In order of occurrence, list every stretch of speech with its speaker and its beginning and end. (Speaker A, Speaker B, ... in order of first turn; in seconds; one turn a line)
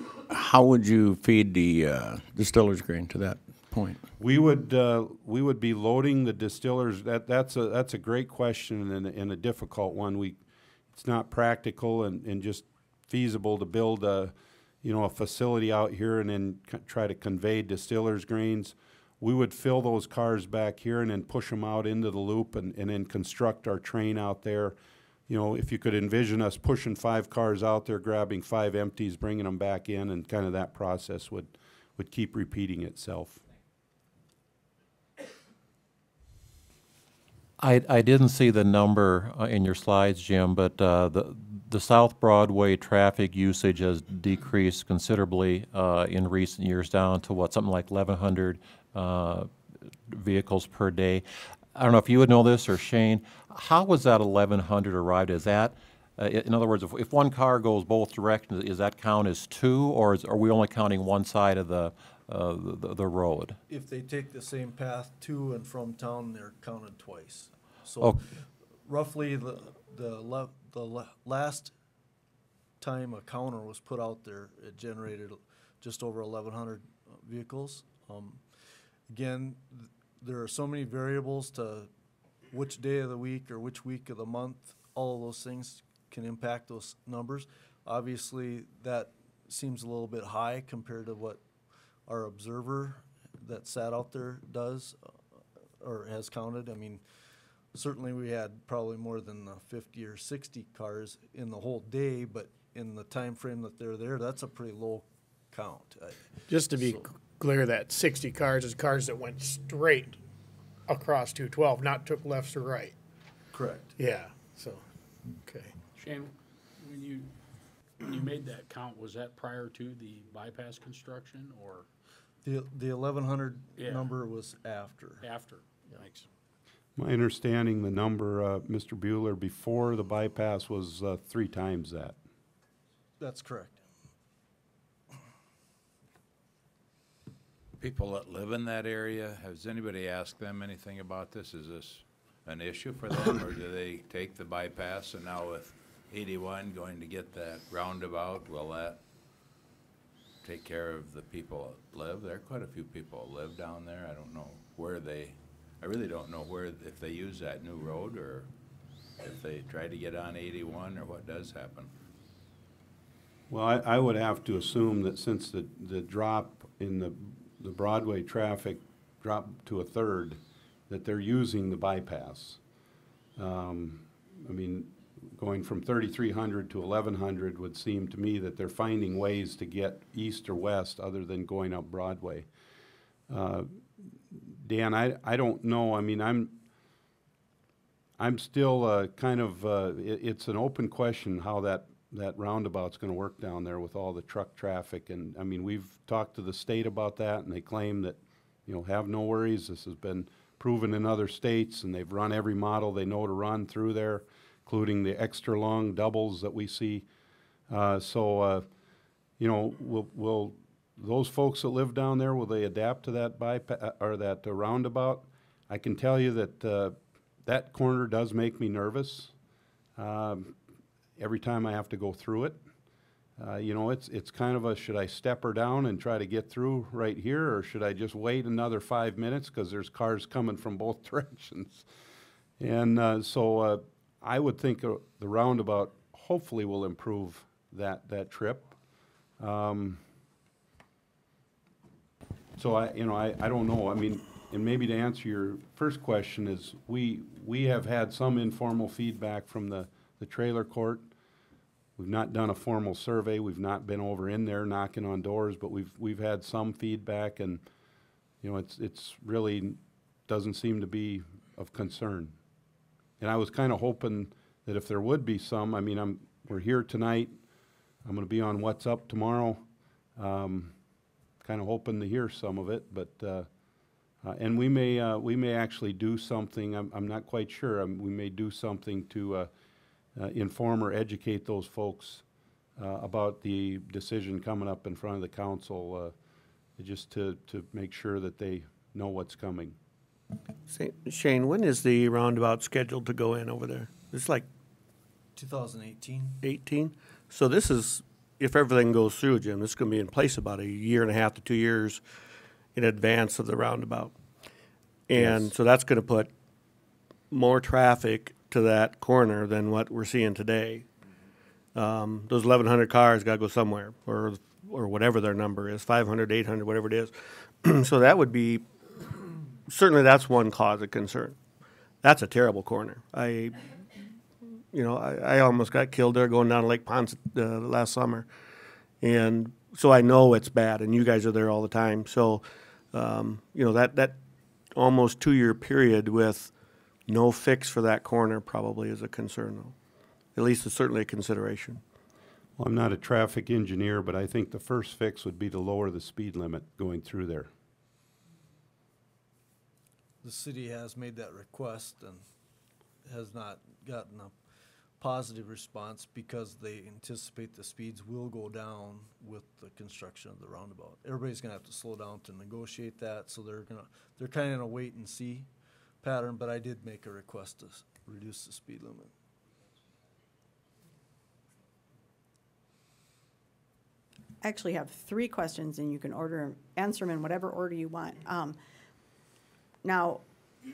Speaker A: 0.3-4.0
Speaker B: 4.2-10.4
Speaker B: 10.9-24.8
Speaker B: 25.3-33.4
Speaker C: 37.6-63.6
Speaker D: 63.7-71.7
Speaker D: 72.8-81.9
Speaker D: 82.5-91.4
Speaker D: 92.1-95.1
Speaker D: 95.8-97.0
Speaker D: 97.7-106.4
Speaker E: 106.5-110.2
Speaker E: 110.9-112.9
Speaker D: 113.5-113.9
Speaker E: 114.0-114.8
Speaker E: 115.4-115.8
Speaker F: 116.0-117.3
Speaker F: 118.0-121.9
Speaker D: 122.4-125.2
Speaker F: 123.8-124.1
Speaker F: 125.2-126.2
Speaker B: 127.0-132.2
Speaker D: 133.2-133.8
Speaker G: 137.8-149.0
Speaker G: 150.4-158.5
Speaker G: 159.2-161.9
Speaker B: 163.5-172.6
Speaker B: 173.3-182.5
Speaker B: 183.3-186.6
Speaker B: 188.2-207.1
Speaker B: 207.7-208.7
Speaker B: 209.4-219.3
Speaker B: 219.9-220.6
Speaker B: 221.2-222.6
Speaker B: 223.4-231.9
Speaker B: 232.6-238.7
Speaker B: 239.4-240.0
Speaker B: 242.6-251.1
Speaker B: 252.0-257.6
Speaker B: 258.4-262.4
Speaker B: 263.2-267.4
Speaker B: 268.0-269.6
Speaker B: 270.1-270.8
Speaker B: 271.4-273.5
Speaker B: 274.2-279.5
Speaker B: 280.1-282.2
Speaker B: 282.8-286.1
Speaker B: 286.8-289.8
Speaker H: 290.7-294.5
Speaker D: 295.4-296.4
Speaker H: 296.4-302.0
Speaker H: 302.7-304.1
Speaker H: 305.1-306.3
Speaker B: 305.2-305.5
Speaker H: 307.3-310.9
Speaker H: 311.7-318.7
Speaker H: 319.6-321.4
Speaker H: 322.0-323.6
Speaker H: 324.7-328.3
Speaker H: 329.0-334.2
Speaker H: 334.7-336.5
Speaker H: 337.1-339.8
Speaker H: 340.3-341.8
Speaker B: 342.6-347.5
Speaker D: 350.2-352.2
Speaker D: 353.0-354.4
Speaker D: 355.0-365.5
Speaker D: 366.0-369.1
Speaker I: 374.4-378.6
Speaker I: 379.8-380.2